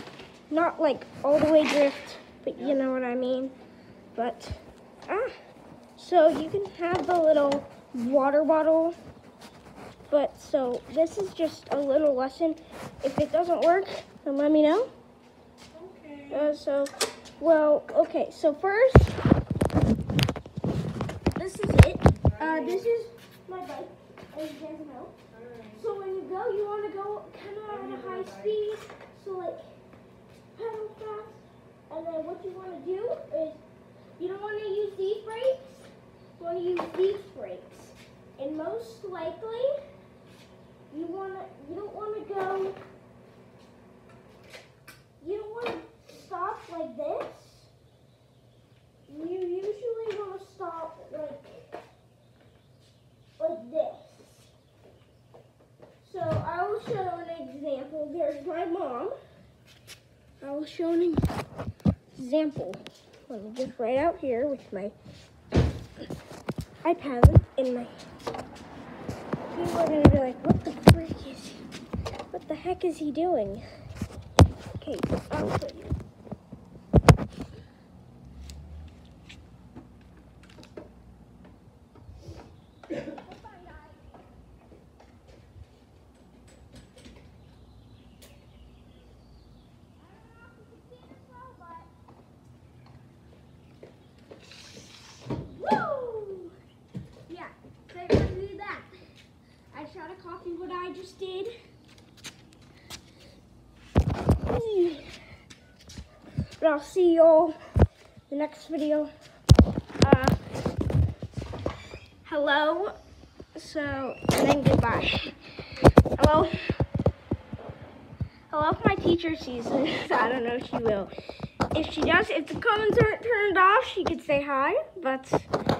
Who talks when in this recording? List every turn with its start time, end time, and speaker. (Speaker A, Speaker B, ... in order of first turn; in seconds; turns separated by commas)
Speaker A: 0.5-3.5, Speaker A: 4.1-5.4, Speaker A: 6.0-8.9, Speaker A: 10.1-14.9, Speaker B: 15.7-16.6, Speaker A: 16.3-19.1, Speaker A: 21.4-25.1, Speaker B: 22.3-22.9, Speaker B: 25.3-25.8, Speaker A: 25.8-29.8, Speaker B: 27.6-28.6, Speaker A: 30.5-33.6, Speaker A: 34.2-39.8, Speaker A: 40.9-42.8, Speaker A: 45.2-47.7, Speaker A: 49.1-51.7, Speaker A: 53.4-54.5, Speaker A: 56.0-59.1, Speaker A: 60.4-61.2, Speaker A: 62.1-64.9, Speaker A: 66.8-68.0, Speaker A: 69.5-71.6, Speaker A: 72.3-73.6, Speaker A: 74.8-75.9, Speaker A: 83.0-84.2, Speaker A: 90.0-91.9, Speaker A: 95.3-96.5, Speaker A: 97.3-98.9, Speaker A: 99.7-101.5, Speaker A: 104.4-105.1, Speaker A: 106.6-107.6, Speaker A: 108.3-109.1, Speaker A: 110.0-110.4, Speaker A: 112.2-113.0, Speaker A: 113.5-115.3, Speaker A: 116.2-116.5, Speaker A: 118.5-121.1, Speaker A: 121.7-125.5